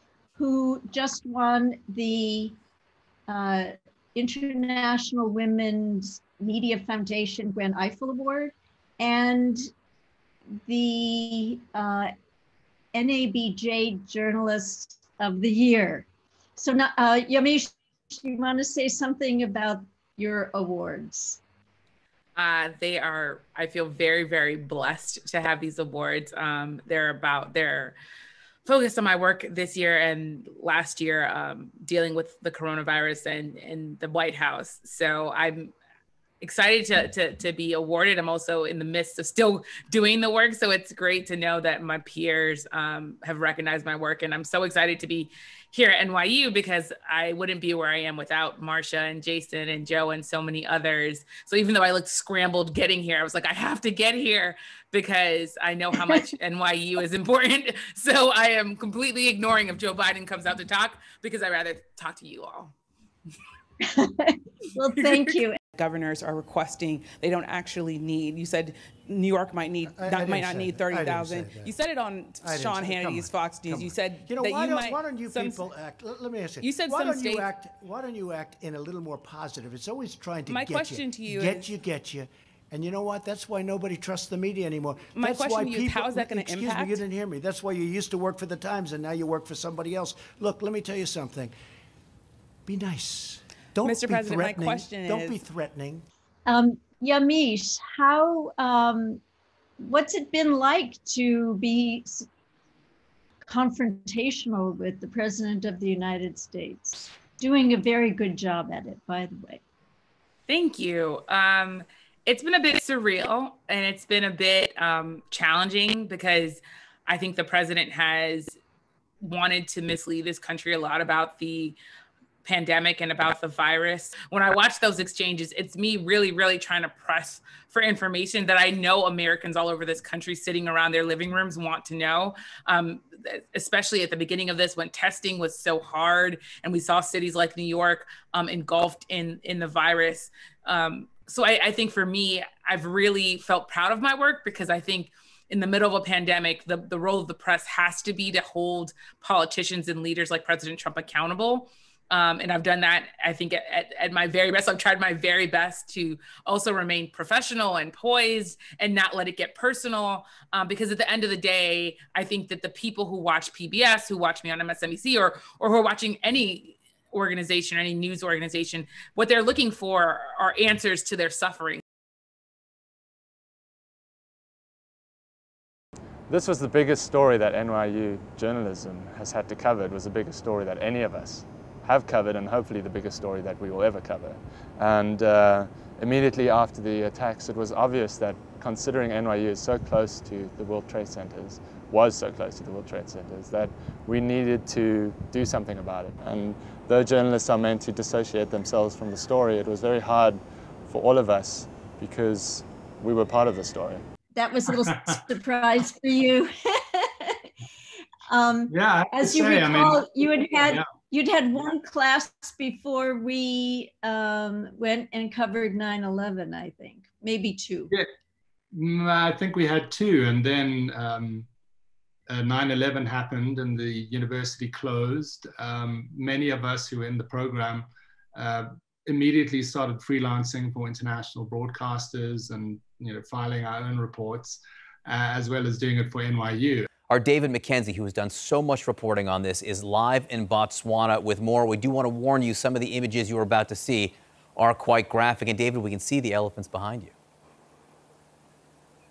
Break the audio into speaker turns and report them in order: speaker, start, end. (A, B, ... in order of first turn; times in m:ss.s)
0:00.4-0:02.6 A
0:03.3-0:09.6 A
0:10.7-0:12.1 A
0:13.0-0:16.0 A
0:16.6-0:21.4 A
0:22.4-0:28.0 B
0:28.7-0:35.7 B
0:36.4-1:02.7 B
1:05.8-1:15.6 C
1:09.9-1:11.7 D
1:12.4-1:31.5 D
1:16.6-1:17.2 C
1:16.6-1:17.4 B
1:20.5-1:21.6 C
1:20.6-1:21.5 B
1:25.1-1:27.0 C
1:32.7-1:36.0 D
1:33.8-1:35.4 C
1:36.5-1:39.2 A
1:39.8-1:42.2 A
1:43.5-1:49.6 A
1:50.5-1:58.6 B
1:59.2-2:01.8 B
2:02.4-2:51.8 B
2:56.3-3:24.0 E
3:24.4-3:27.4 A
3:28.3-3:37.9 A
3:28.7-3:31.0 F
3:38.7-3:41.5 F
3:42.3-3:56.9 F
3:57.1-4:07.1 G